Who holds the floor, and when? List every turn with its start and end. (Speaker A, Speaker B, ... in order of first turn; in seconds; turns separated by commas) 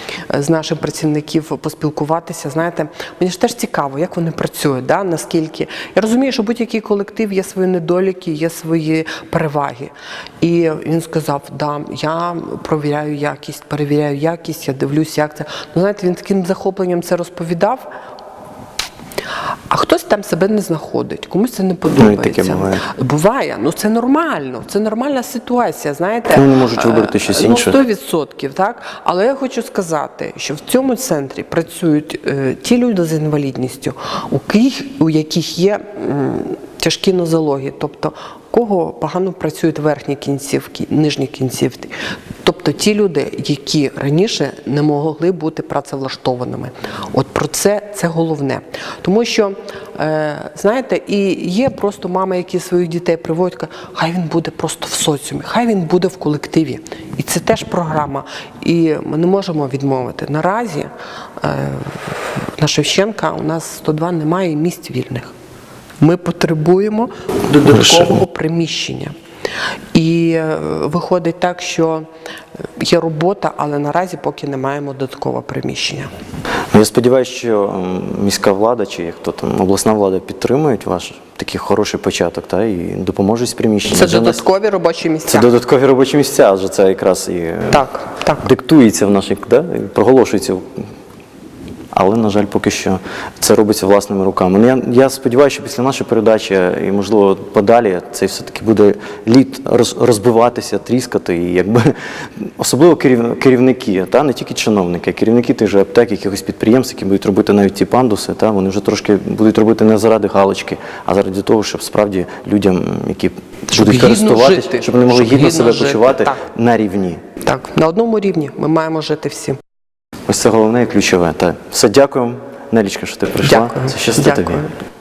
Speaker A: 0.3-17.9, Speaker A: 19.7-60.9, Speaker B: 21.9-22.8, Speaker B: 26.3-27.8, Speaker A: 61.4-65.3, Speaker A: 66.0-69.1, Speaker A: 69.9-72.1, Speaker A: 72.8-76.1, Speaker B: 76.7-84.4, Speaker A: 83.9-85.5, Speaker B: 85.3-87.8, Speaker A: 87.7-88.4, Speaker B: 88.4-90.8, Speaker B: 91.9-117.2, Speaker A: 113.7-116.4, Speaker A: 117.4-119.6, Speaker B: 120.3-124.7, Speaker A: 123.4-124.7